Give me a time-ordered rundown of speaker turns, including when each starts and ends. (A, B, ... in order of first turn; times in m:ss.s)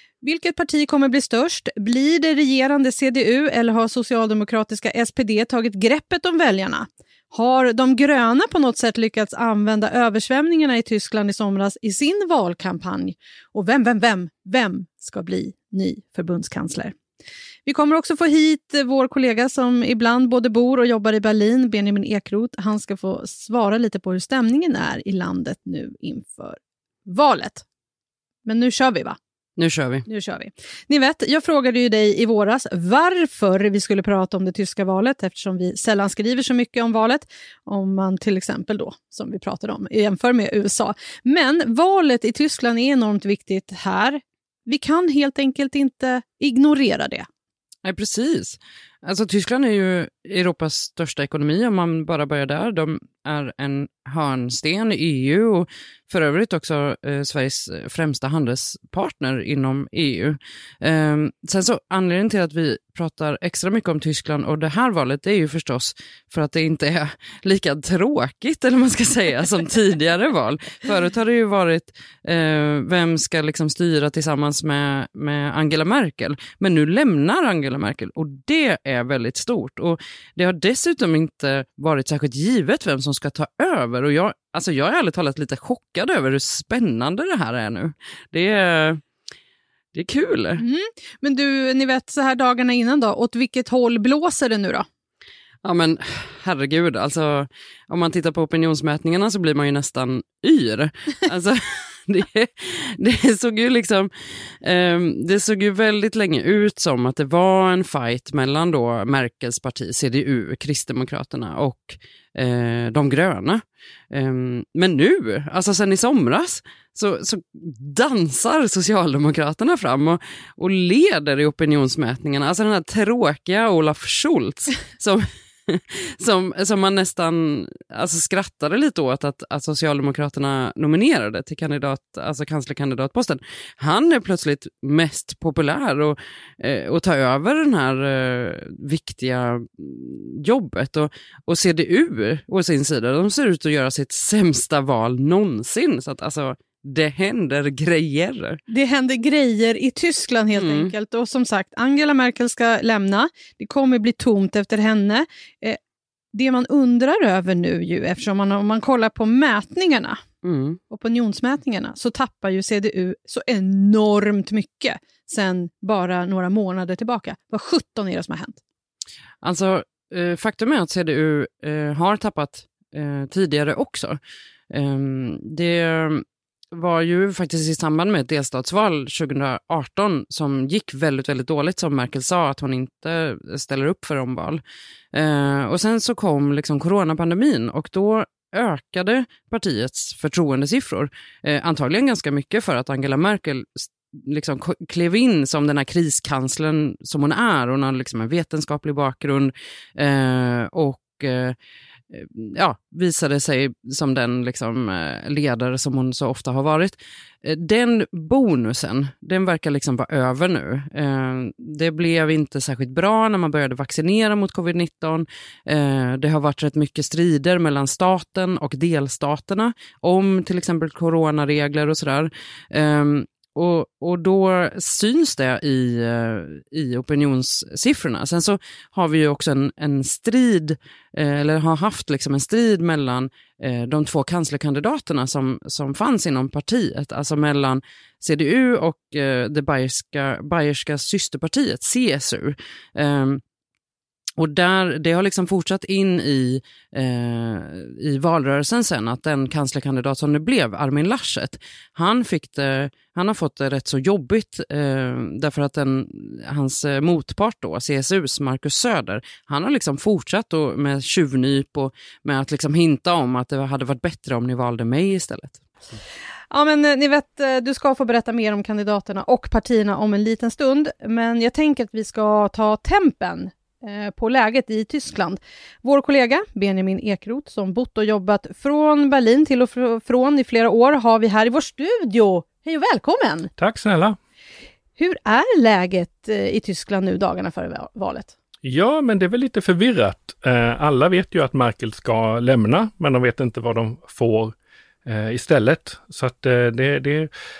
0:00.2-0:16.9 A
0:17.6-0:27.6 A
0:28.4-0:29.2 A
0:29.6-0:30.0 B
0:30.0-0:47.2 A
0:47.8-1:29.0 B
1:29.9-1:30.6 B
1:30.6-1:34.8 A
1:35.6-2:28.6 B
2:28.7-2:35.8 A
2:30.5-2:30.9 B
2:36.3-2:40.2 A
2:40.4-2:40.8 B
2:40.9-2:48.6 A
2:49.4-2:54.2 B
2:54.7-3:04.6 B
3:05.1-3:21.6 B
3:22.1-4:03.4 B
4:04.4-4:25.6 B
4:26.5-4:43.5 A
4:43.6-4:44.2 C
4:45.0-4:48.3 A
4:48.6-4:54.5 C
4:55.0-4:57.3 C